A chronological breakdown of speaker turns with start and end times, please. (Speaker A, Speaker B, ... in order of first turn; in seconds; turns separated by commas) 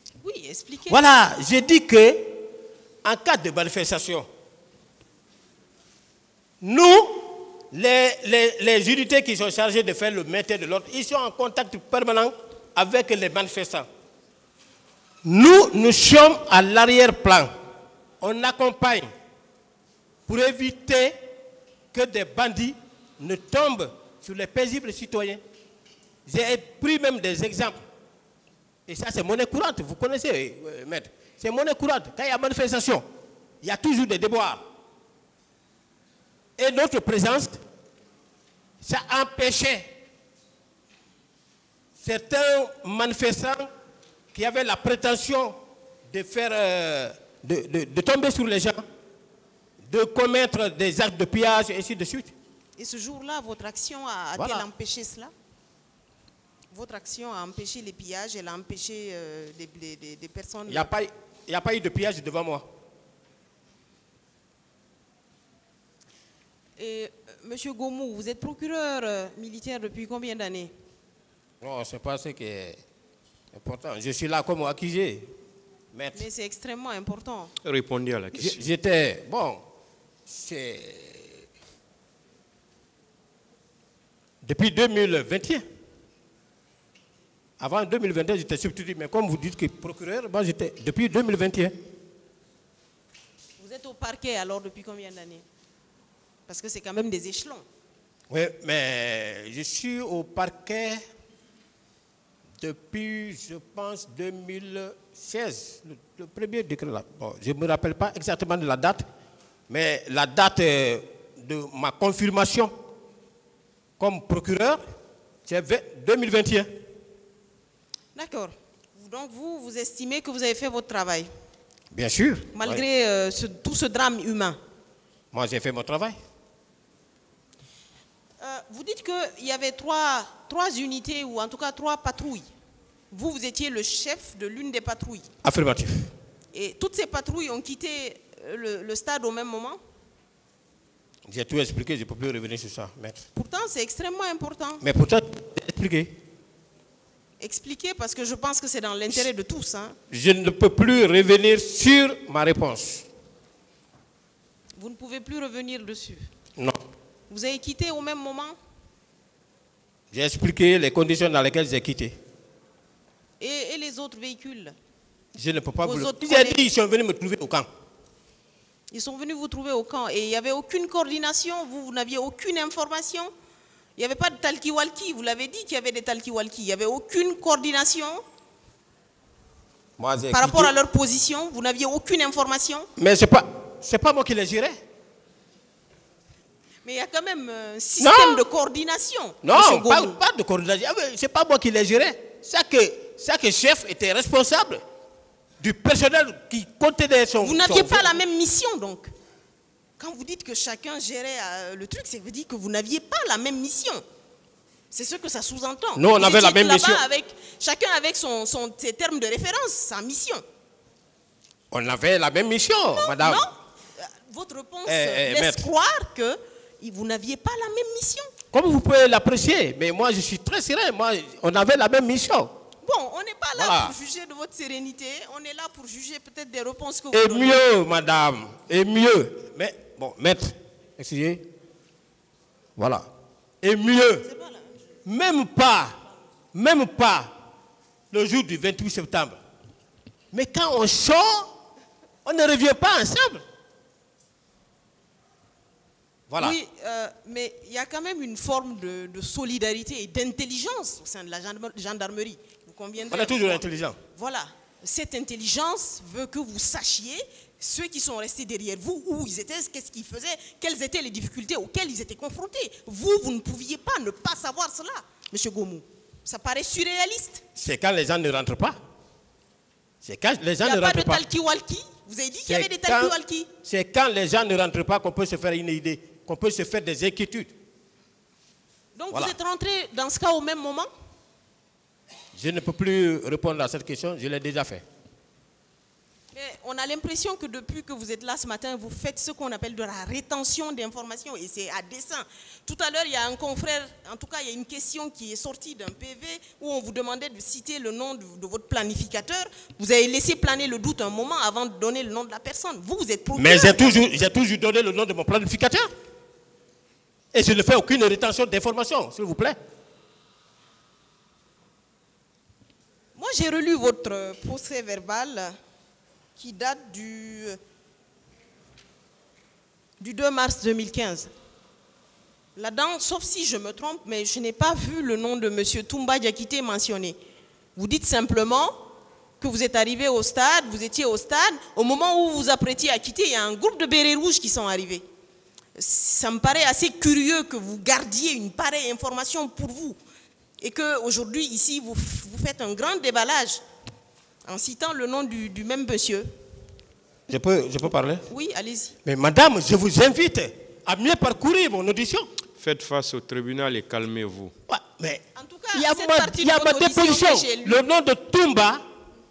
Speaker A: 0.2-1.0, Speaker B: 0.9-2.4, Speaker B: 3.0-4.3, Speaker B: 6.6-13.9, Speaker B: 15.2-17.5, Speaker B: 18.2-19.1, Speaker B: 20.3-21.2, Speaker B: 21.9-25.4, Speaker B: 26.3-27.8, Speaker B: 28.9-33.0, Speaker B: 33.6-34.6, Speaker B: 36.6-37.6, Speaker B: 38.8-39.9, Speaker B: 42.0-43.7, Speaker B: 44.3-45.6, Speaker B: 46.1-48.8, Speaker B: 49.9-52.3, Speaker A: 52.8-55.3, Speaker B: 54.4-54.7, Speaker A: 56.7-60.9, Speaker B: 60.7-62.7, Speaker A: 66.8-70.7, Speaker B: 71.6-72.8, Speaker B: 73.5-75.3, Speaker B: 75.9-76.2, Speaker A: 76.1-77.5, Speaker C: 77.6-78.6, Speaker B: 78.3-79.6, Speaker B: 80.3-81.5, Speaker B: 84.4-85.6, Speaker B: 87.6-91.8, Speaker A: 93.6-95.4, Speaker A: 96.5-97.7, Speaker B: 98.3-101.0, Speaker B: 102.6-109.0, Speaker B: 109.7-112.7, Speaker B: 114.0-114.8, Speaker B: 115.5-116.7, Speaker A: 118.2-121.3, Speaker B: 121.9-122.8, Speaker A: 122.5-124.6, Speaker B: 125.3-126.2, Speaker A: 128.4-132.5, Speaker A: 133.1-135.3, Speaker B: 135.4-136.1, Speaker A: 136.5-139.8, Speaker B: 141.3-143.2, Speaker A: 143.3-144.8, Speaker B: 144.8-146.1, Speaker A: 147.4-150.0, Speaker B: 150.1-153.1, Speaker A: 154.8-156.3, Speaker A: 157.3-158.6, Speaker B: 160.1-162.2, Speaker A: 163.4-164.8, Speaker B: 165.3-167.7, Speaker A: 165.8-166.7, Speaker A: 168.9-173.3, Speaker A: 174.0-178.2, Speaker B: 180.0-180.7, Speaker A: 180.3-182.9, Speaker B: 183.0-184.8, Speaker A: 186.8-190.2, Speaker B: 188.0-188.4, Speaker B: 189.4-194.8, Speaker B: 195.6-198.2, Speaker A: 197.4-199.1, Speaker A: 200.0-204.0, Speaker A: 204.9-210.4, Speaker B: 205.9-207.0, Speaker B: 211.7-213.5, Speaker A: 212.9-218.3, Speaker B: 214.9-215.7, Speaker B: 218.5-222.5, Speaker A: 222.8-227.6, Speaker B: 223.6-223.9, Speaker B: 227.1-231.4, Speaker B: 232.8-233.1, Speaker B: 233.6-234.3, Speaker A: 234.2-234.8, Speaker B: 235.1-236.0, Speaker B: 236.5-237.3, Speaker B: 238.1-239.4, Speaker B: 240.3-241.5, Speaker B: 242.2-243.4, Speaker B: 246.3-246.6, Speaker A: 246.4-253.6, Speaker B: 253.1-254.0, Speaker A: 254.1-267.4, Speaker B: 267.6-268.8, Speaker B: 270.0-271.2, Speaker A: 270.6-273.5, Speaker B: 272.5-277.5, Speaker A: 278.9-280.9, Speaker B: 282.3-284.8, Speaker A: 286.3-304.0, Speaker B: 303.4-305.9, Speaker B: 307.3-309.6, Speaker A: 313.2-315.6, Speaker A: 316.4-317.6, Speaker A: 320.0-321.3, Speaker A: 322.6-327.2, Speaker A: 327.8-328.8, Speaker A: 329.4-335.0, Speaker A: 335.8-340.0, Speaker A: 340.6-343.6, Speaker A: 344.4-346.3, Speaker B: 347.3-348.3, Speaker A: 348.3-349.0, Speaker B: 349.1-352.3, Speaker C: 352.6-354.5, Speaker B: 354.7-355.2, Speaker A: 355.4-357.8, Speaker B: 355.7-358.8